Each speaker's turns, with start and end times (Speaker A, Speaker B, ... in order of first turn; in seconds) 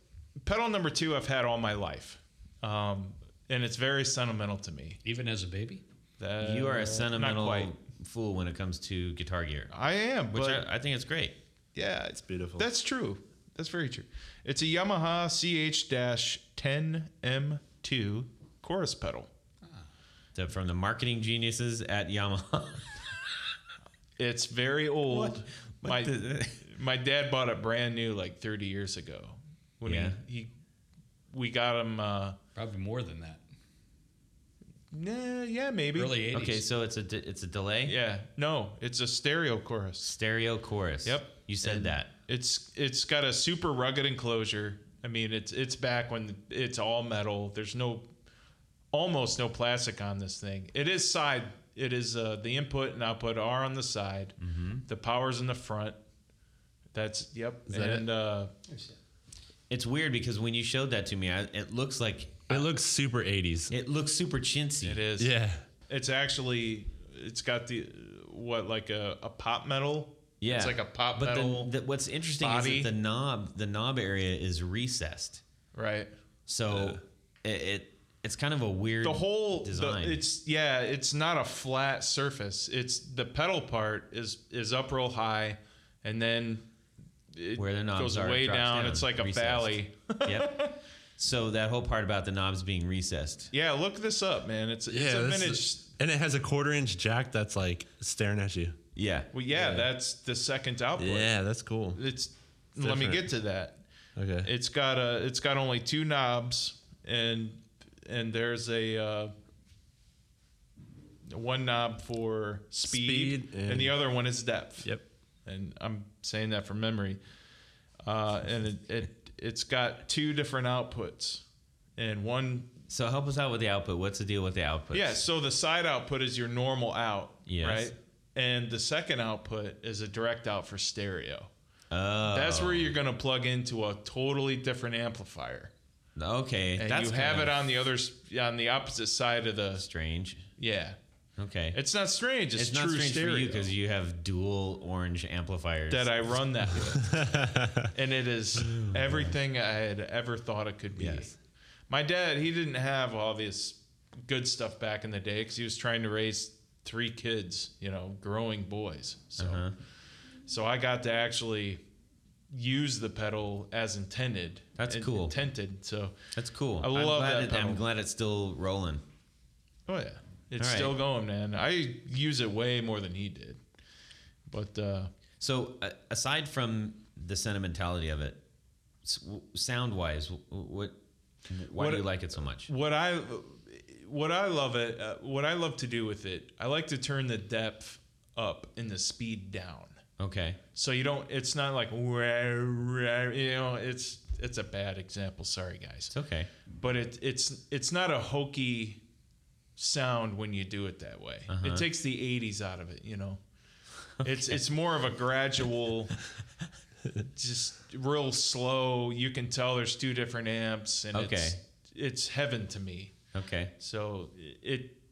Speaker A: 0.4-5.0, 6.2-7.7, 9.7-10.7, 11.8-19.3, 24.2-30.5, 31.3-32.4, 34.9-36.2, 37.9-40.1, 41.0-48.1, 48.9-54.4, 54.9-56.0, 56.9-58.5, 64.8-65.3, 65.8-71.7, 72.4-72.9, 75.7-76.1, 79.0-86.7, 87.3-90.7, 93.5-95.8, 99.3-101.3, 101.9-103.8, 104.4-109.3, 111.3-114.9, 115.5-117.2, 118.0-121.4, 122.0-122.7, 124.9-131.5, 132.3-135.7, 136.8-139.8, 140.6-141.0, 141.7-143.7, 145.9-147.3, 147.9-151.3, 151.9-159.7, 160.5-161.8, 162.5-166.2, 166.8-167.8, 169.9-173.6, 174.5-175.1, 181.7-182.1, 182.7-190.0, 190.7-196.1, 196.7-199.0, 199.8-203.4, 204.2-206.1, 207.3-213.1, 213.8-215.0
Speaker B: 5.0-5.8, 32.5-33.4, 36.0-36.6, 58.7-58.9
Speaker C: 6.4-9.7, 10.3-11.4, 20.4-23.0, 25.1-26.6, 29.9-30.2, 36.3-38.0, 40.0-42.1, 54.4-54.8, 59.7-62.7, 63.7-65.0, 70.4-75.4, 76.5-80.2, 87.6-90.6, 91.2-93.5, 99.0-99.3, 122.9-125.2, 127.5-127.9, 131.9-133.0, 136.2-137.7, 139.8-140.5, 141.4-141.8, 142.6-146.4, 148.7-149.3, 150.9-151.3, 159.4-159.7, 164.8-165.4, 166.3-169.0, 170.6-171.0, 175.4-178.4, 179.0-181.0, 181.5-182.7, 190.2-190.6, 196.1-196.5, 201.5-201.9, 204.2-204.6, 211.1-211.6, 213.3-213.7
Speaker D: 12.1-12.7, 57.7-58.0, 62.5-63.7, 65.2-65.6, 76.7-77.0, 94.9-98.8, 99.5-99.9, 101.0-102.0, 102.8-103.3, 104.2-104.5, 112.9-114.0, 147.0-147.9